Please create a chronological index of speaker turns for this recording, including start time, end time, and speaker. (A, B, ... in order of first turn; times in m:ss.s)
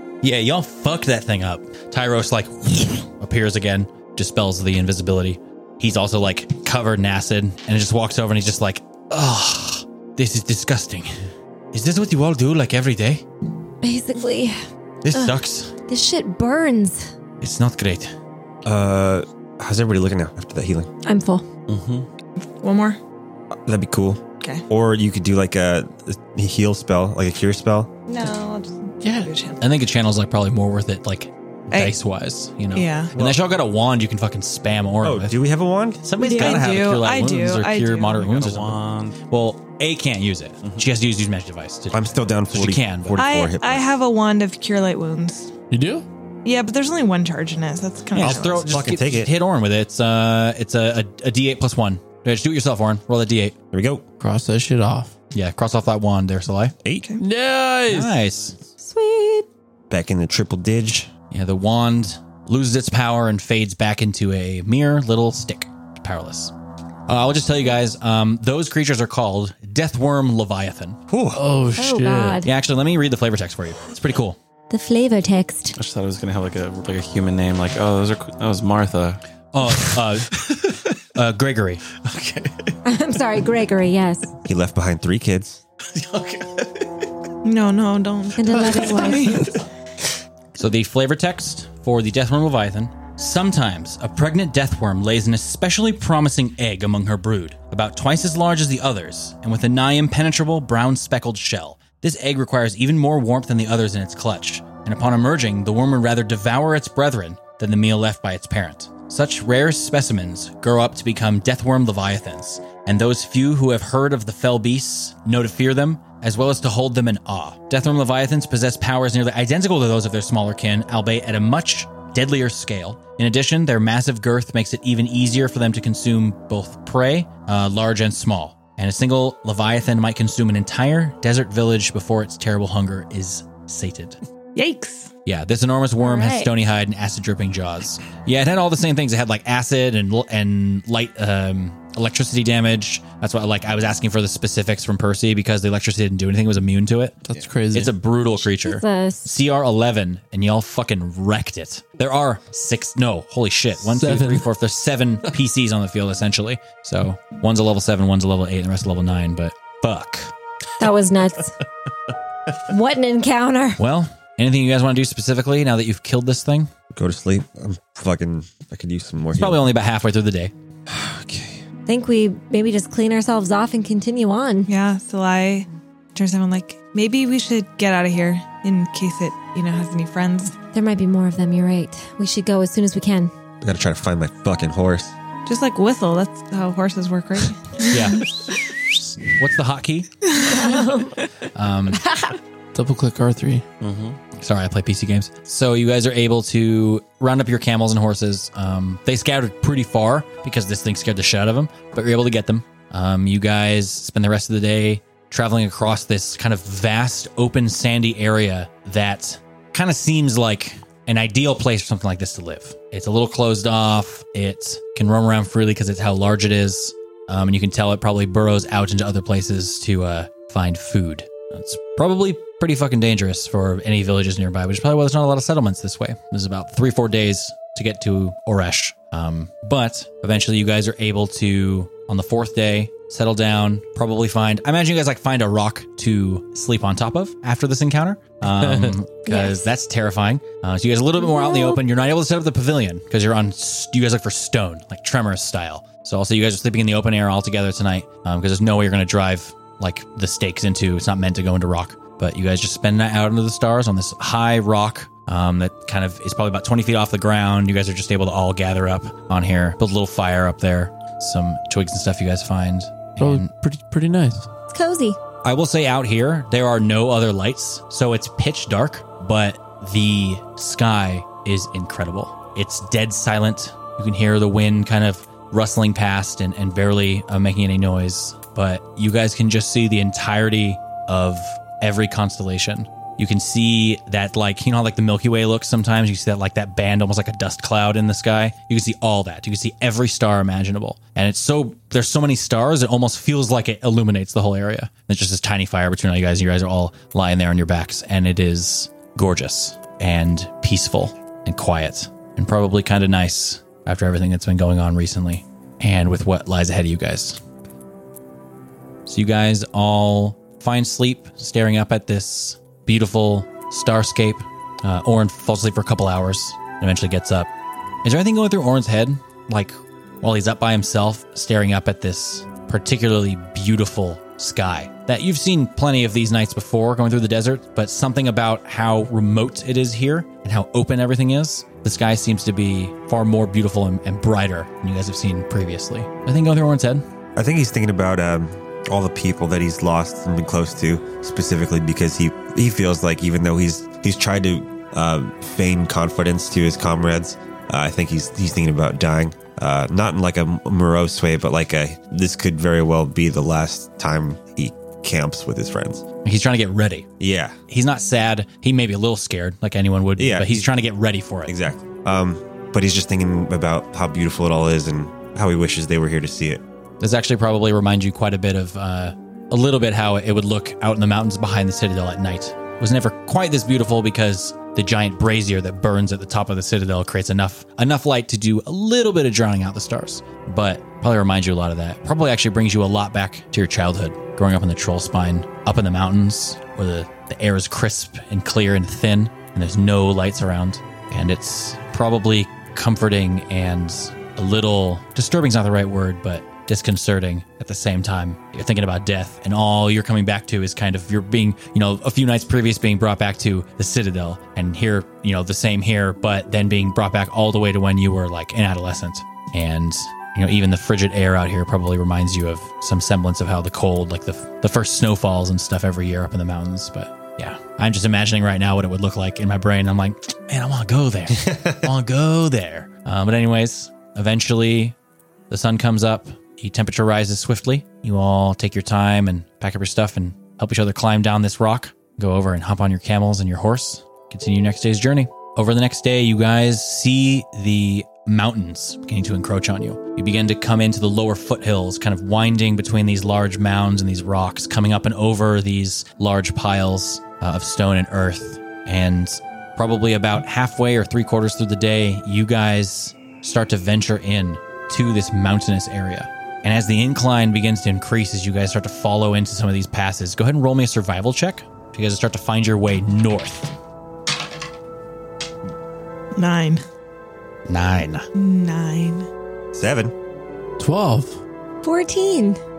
0:00.2-0:11.1 A
0:11.7-0:13.2 A
0:13.8-0:14.6 B
0:15.0-0:15.7 A
0:15.9-0:17.0 B
0:17.4-0:18.1 A
0:18.6-0:20.9 C
0:21.0-0:21.4 B
0:21.7-0:22.1 D
0:22.6-0:23.0 E
0:23.6-0:27.9 C
0:28.1-0:29.6 E
0:29.0-0:29.3 F
0:29.6-0:35.4 A
0:32.7-0:33.1 E
0:33.1-0:33.4 C
0:35.0-0:36.8 C
0:36.0-0:43.2 A
0:36.2-0:38.3 E
0:38.2-0:39.2 D
0:41.9-0:43.8 C
0:43.2-0:45.5 E
0:45.7-0:46.0 F
0:46.4-0:48.7 E
0:48.1-0:53.5 A
0:48.2-0:49.3 C
0:53.7-0:54.0 C
0:54.2-0:55.1 F
0:55.3-0:56.7 A
0:57.2-0:58.2 F
0:57.9-0:58.6 A
0:58.8-0:59.4 B
0:59.9-1:01.1 C
1:01.3-1:06.5 A
1:07.1-1:11.0 A
1:11.1-1:11.4 C
1:11.3-1:12.4 F
1:11.7-1:12.5 B
1:12.4-1:14.4 A
1:14.7-1:15.8 B
1:15.7-1:20.8 D
1:19.5-1:20.4 A
1:21.1-1:21.8 A
1:22.0-1:22.7 D
1:22.8-1:24.3 B
1:24.4-1:25.6 C
1:25.9-1:27.0 D
1:27.4-1:29.3 E
1:28.4-1:29.5 B
1:28.8-1:29.4 D
1:30.5-2:14.2 A
2:14.5-2:15.1 E
2:15.2-2:27.2 A
2:16.0-2:16.5 B
2:27.3-2:27.9 F
2:27.7-2:40.3 A
2:28.5-2:29.3 B
2:33.8-2:34.5 F
2:40.8-2:41.5 B
2:42.7-2:43.8 B
2:43.8-2:46.7 A
2:46.9-2:49.6 C
2:49.4-2:50.5 A
2:50.9-2:51.6 C
2:51.9-2:54.7 B
2:54.7-3:00.6 E
3:00.7-3:03.3 B
3:03.6-3:05.1 C
3:05.4-3:08.5 E
3:07.9-3:08.3 A
3:09.2-3:10.1 A
3:10.2-3:10.8 E
3:10.5-3:11.2 B
3:11.5-3:12.0 A
3:11.9-3:12.4 B
3:12.7-3:13.6 F
3:13.8-3:14.2 D
3:14.4-4:23.5 A
3:59.2-3:59.6 B
4:01.2-4:01.8 B
4:23.2-4:24.5 F
4:24.7-4:25.2 B
4:25.4-5:07.4 A
5:09.1-5:17.5 A
5:18.0-5:37.0 A
5:37.4-5:56.0 C
5:56.2-5:57.1 A
5:57.2-5:57.6 C
5:57.7-6:01.5 A
6:00.2-6:00.7 C
6:01.4-6:06.6 C
6:07.0-7:04.9 A
7:01.4-7:01.8 C
7:05.5-7:43.7 A
7:46.4-7:46.8 E
7:47.6-7:48.3 A
7:48.3-7:49.3 E
7:49.7-7:50.1 C
7:50.8-7:51.4 F
7:51.8-7:52.6 B